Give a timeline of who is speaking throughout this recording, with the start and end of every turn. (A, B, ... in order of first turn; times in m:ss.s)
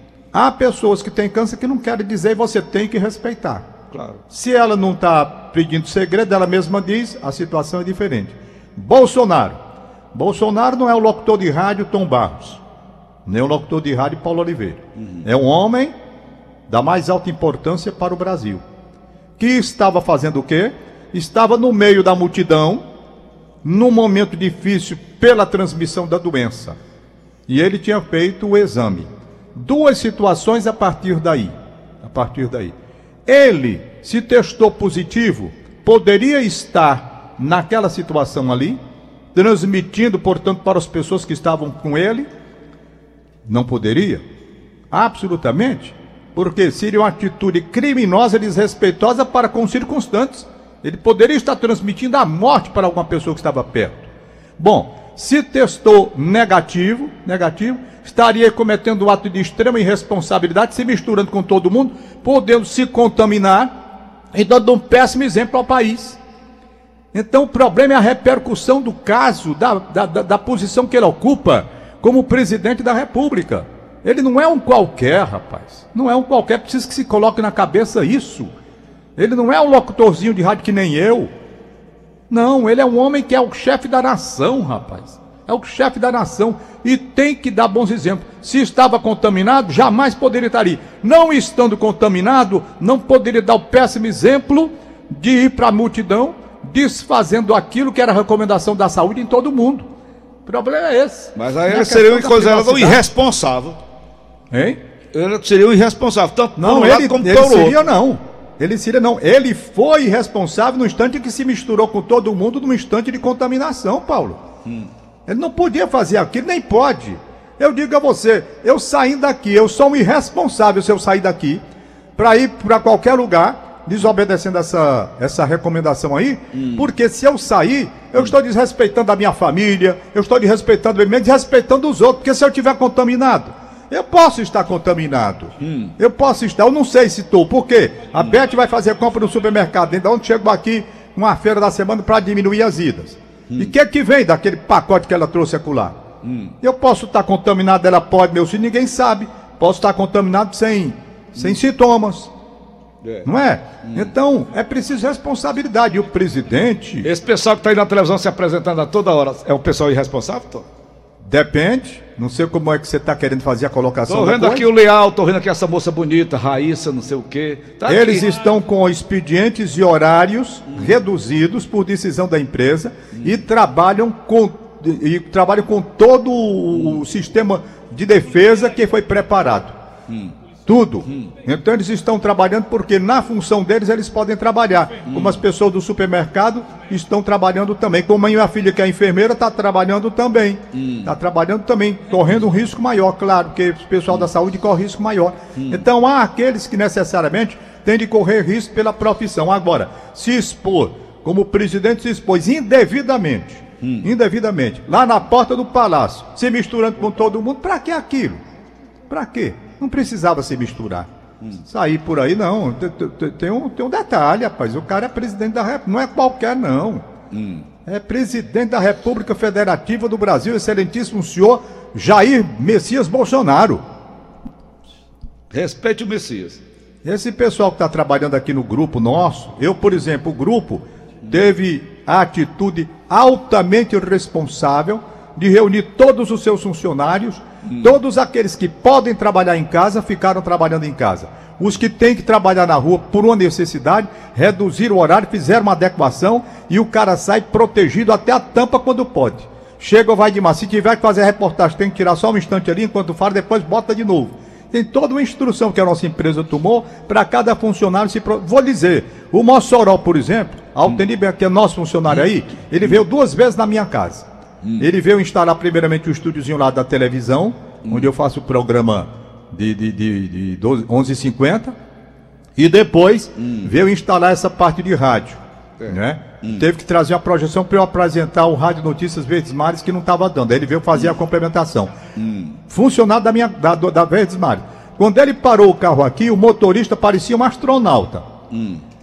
0:00.3-0:03.7 A
0:03.9-0:04.2 B
0:04.3-0:09.6 A
0:10.1-0:12.6 A
0:13.2-0:15.9 A
0:15.0-0:15.2 B
0:16.7-0:18.6 A
0:19.4-0:22.8 A
0:23.6-0:26.8 A
0:27.5-0:32.8 A
0:33.3-0:38.8 A
0:39.3-0:42.3 A
0:43.4-0:44.2 A
0:44.9-1:03.8 A
1:04.3-1:06.2 A
1:07.1-1:18.5 A
1:19.2-1:21.3 A
1:22.3-1:39.9 A
1:40.5-1:43.0 A
1:41.4-1:43.8 B
1:44.5-1:44.8 A
1:45.1-1:47.8 B
1:46.6-1:54.4 A
1:54.6-1:54.9 B
1:55.3-2:01.6 A
2:02.2-2:26.0 A
2:06.5-2:06.9 B
2:15.6-2:16.0 B
2:26.2-2:26.6 B
2:26.6-2:32.3 A
2:33.0-2:33.3 B
2:33.2-2:37.1 A
2:33.8-2:34.1 B
2:37.0-2:40.7 B
2:41.2-2:44.7 A
2:44.1-2:48.3 B
2:47.9-2:59.8 A
2:50.7-2:51.0 B
2:53.1-2:53.4 B
3:00.1-3:00.4 B
3:00.7-3:28.4 A
3:01.1-3:01.3 B
3:05.1-3:05.4 B
3:10.7-3:11.1 B
3:15.6-3:15.9 B
3:23.8-3:24.1 B
3:29.1-3:31.1 A
3:31.7-3:37.0 A
3:37.3-3:37.7 B
3:37.9-3:43.8 A
3:45.5-3:46.6 B
3:47.0-4:24.3 A
3:57.6-3:58.0 B
4:24.6-4:24.9 B
4:24.8-4:31.8 A
4:27.8-4:28.1 B
4:32.6-4:42.0 A
4:33.4-4:33.7 B
4:35.8-4:36.7 B
4:42.2-4:42.6 B
4:42.7-4:48.3 A
4:48.5-4:48.8 B